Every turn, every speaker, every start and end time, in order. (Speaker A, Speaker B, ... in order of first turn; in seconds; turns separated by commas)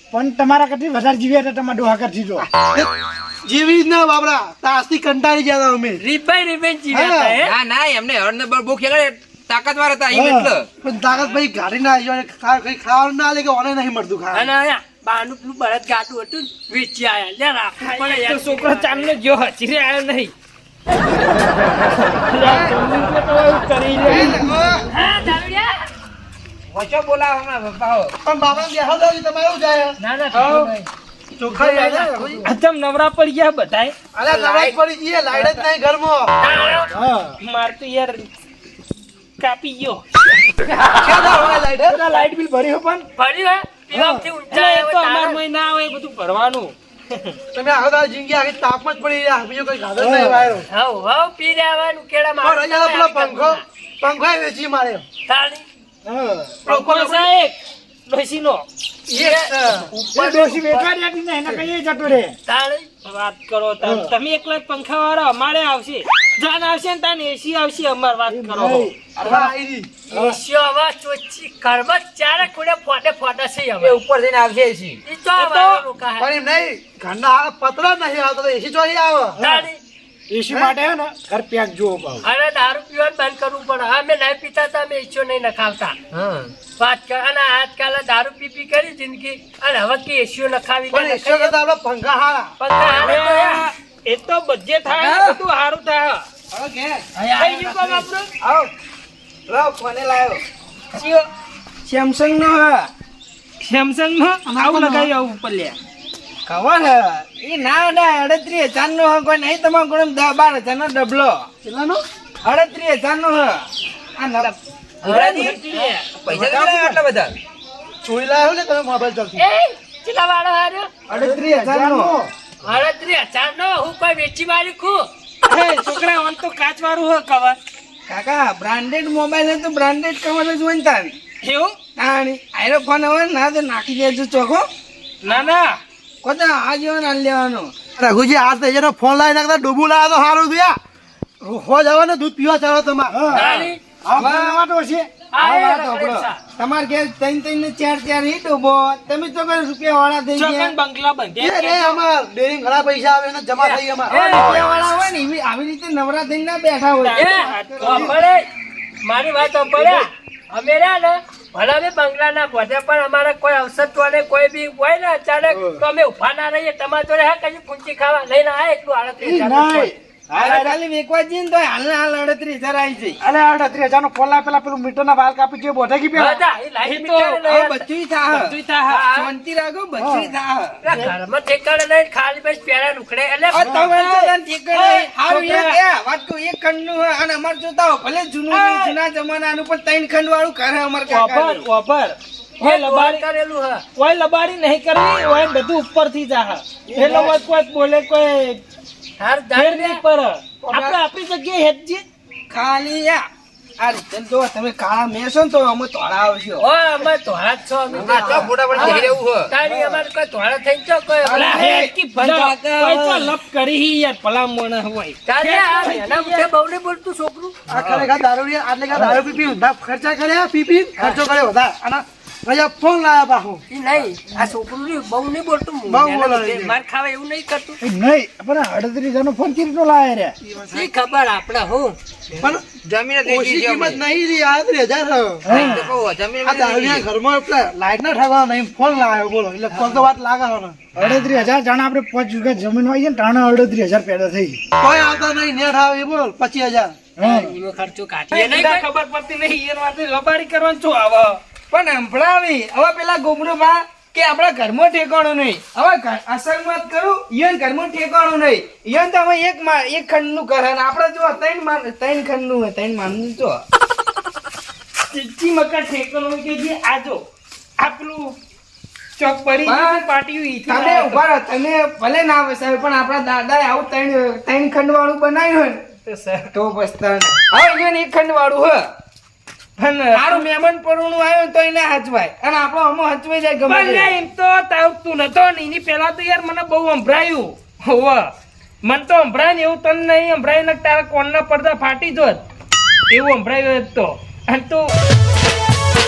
Speaker A: 0.1-2.5, Speaker B: 2.4-2.9, Speaker B: 3.5-6.0, Speaker C: 6.0-7.6, Speaker B: 6.9-7.4, Speaker D: 7.4-10.7, Speaker A: 10.1-10.6, Speaker B: 10.8-14.5, Speaker C: 14.3-19.1, Speaker E: 17.8-20.3, Speaker E: 22.3-24.5, Speaker B: 24.0-24.8, Speaker C: 24.9-25.8, Speaker D: 26.7-28.1, Speaker B: 28.2-29.9, Speaker C: 30.0-30.9, Speaker E: 30.3-30.7, Speaker B: 31.4-32.4, Speaker C: 31.8-32.4, Speaker E: 32.4-33.9, Speaker B: 34.2-36.3, Speaker C: 34.3-34.8, Speaker C: 36.4-36.9, Speaker A: 36.9-37.4, Speaker E: 37.4-38.3, Speaker E: 39.4-40.0, Speaker B: 41.0-42.0, Speaker A: 41.9-43.1, Speaker C: 43.1-45.4, Speaker A: 43.9-44.3, Speaker E: 44.5-46.7, Speaker B: 47.5-50.6, Speaker A: 50.0-50.5, Speaker C: 50.7-53.6, Speaker B: 52.4-55.0, Speaker C: 55.2-55.6, Speaker A: 56.0-56.6, Speaker B: 56.6-57.2, Speaker E: 56.6-58.6, Speaker B: 59.1-59.9, Speaker C: 59.1-60.9, Speaker A: 60.1-62.4, Speaker C: 62.5-62.9, Speaker E: 63.0-68.9, Speaker A: 63.8-64.1, Speaker A: 68.3-69.5, Speaker B: 69.2-69.9, Speaker C: 70.1-74.0, Speaker A: 70.1-70.4, Speaker D: 73.8-75.0, Speaker C: 75.0-76.3, Speaker E: 75.4-75.8, Speaker B: 76.2-79.4, Speaker A: 79.4-79.7, Speaker C: 79.4-79.8, Speaker A: 80.3-82.2, Speaker C: 82.2-86.0, Speaker D: 86.1-86.5, Speaker C: 86.8-91.5, Speaker B: 90.9-92.5, Speaker C: 92.6-93.7, Speaker E: 93.0-96.2, Speaker D: 94.9-95.4, Speaker F: 96.5-97.0, Speaker C: 97.2-98.0, Speaker E: 97.4-98.2, Speaker F: 98.4-98.7, Speaker F: 99.5-100.4, Speaker F: 101.8-102.9, Speaker E: 103.6-105.8, Speaker B: 104.5-105.1, Speaker F: 106.5-111.5, Speaker B: 111.6-112.0, Speaker F: 112.4-113.6, Speaker F: 114.2-114.5, Speaker C: 115.0-116.0, Speaker D: 115.0-117.3, Speaker B: 116.3-116.9, Speaker B: 118.0-119.4, Speaker C: 119.4-120.9, Speaker F: 121.1-122.1, Speaker A: 121.1-122.3, Speaker C: 122.6-125.0, Speaker E: 125.5-127.6, Speaker F: 128.1-131.2, Speaker E: 131.4-131.8, Speaker F: 131.9-134.7, Speaker E: 135.2-135.8, Speaker F: 136.2-137.7, Speaker B: 138.0-140.8, Speaker B: 141.4-143.2, Speaker A: 143.1-143.5, Speaker C: 143.3-143.8, Speaker B: 144.0-144.4, Speaker A: 144.1-146.0, Speaker F: 144.2-144.6, Speaker C: 145.3-146.4, Speaker F: 146.0-150.7, Speaker E: 150.3-152.0, Speaker B: 151.4-154.6, Speaker C: 153.6-154.6, Speaker F: 154.1-157.4, Speaker E: 157.0-158.2, Speaker C: 157.1-158.4, Speaker C: 159.0-169.9, Speaker A: 165.5-165.8, Speaker A: 169.2-170.7, Speaker F: 170.3-173.2, Speaker A: 173.2-176.4, Speaker C: 176.1-177.8, Speaker E: 176.8-177.4, Speaker F: 177.4-178.6, Speaker E: 178.3-179.1, Speaker C: 178.9-179.3, Speaker F: 179.1-180.8, Speaker A: 180.0-180.3, Speaker C: 180.8-183.7, Speaker F: 183.5-191.6, Speaker A: 183.6-183.9, Speaker E: 184.0-185.8, Speaker E: 188.5-189.0, Speaker E: 191.1-193.2, Speaker C: 192.6-193.8, Speaker E: 193.9-198.6, Speaker A: 196.9-197.3, Speaker C: 199.2-200.0, Speaker E: 199.6-202.0, Speaker F: 200.7-201.0, Speaker C: 200.7-201.0, Speaker F: 202.5-203.2, Speaker F: 203.8-206.6, Speaker C: 206.6-211.7, Speaker D: 207.9-209.5, Speaker F: 208.1-209.0, Speaker F: 211.2-211.9, Speaker E: 211.3-216.5, Speaker D: 212.1-213.3, Speaker C: 215.2-217.5, Speaker B: 217.7-223.6, Speaker D: 217.7-218.1, Speaker A: 218.9-219.2, Speaker C: 223.7-227.8, Speaker B: 225.9-226.7, Speaker A: 227.8-230.4, Speaker B: 230.4-230.9, Speaker C: 230.7-232.0, Speaker B: 232.4-235.6, Speaker D: 232.8-234.0, Speaker A: 235.4-235.9, Speaker D: 235.5-237.1, Speaker B: 236.4-240.8, Speaker A: 241.0-244.6, Speaker C: 241.0-241.4, Speaker B: 244.8-247.0, Speaker A: 247.2-247.5, Speaker C: 247.2-248.9, Speaker E: 248.3-251.4, Speaker F: 251.7-263.6, Speaker E: 265.1-267.2, Speaker E: 267.8-268.4, Speaker E: 269.2-271.2, Speaker F: 269.6-270.1, Speaker F: 270.7-275.8, Speaker E: 276.1-276.5, Speaker F: 276.5-278.9, Speaker E: 279.8-280.4, Speaker F: 280.1-284.1, Speaker E: 283.7-288.2, Speaker E: 288.8-292.4, Speaker E: 293.1-294.9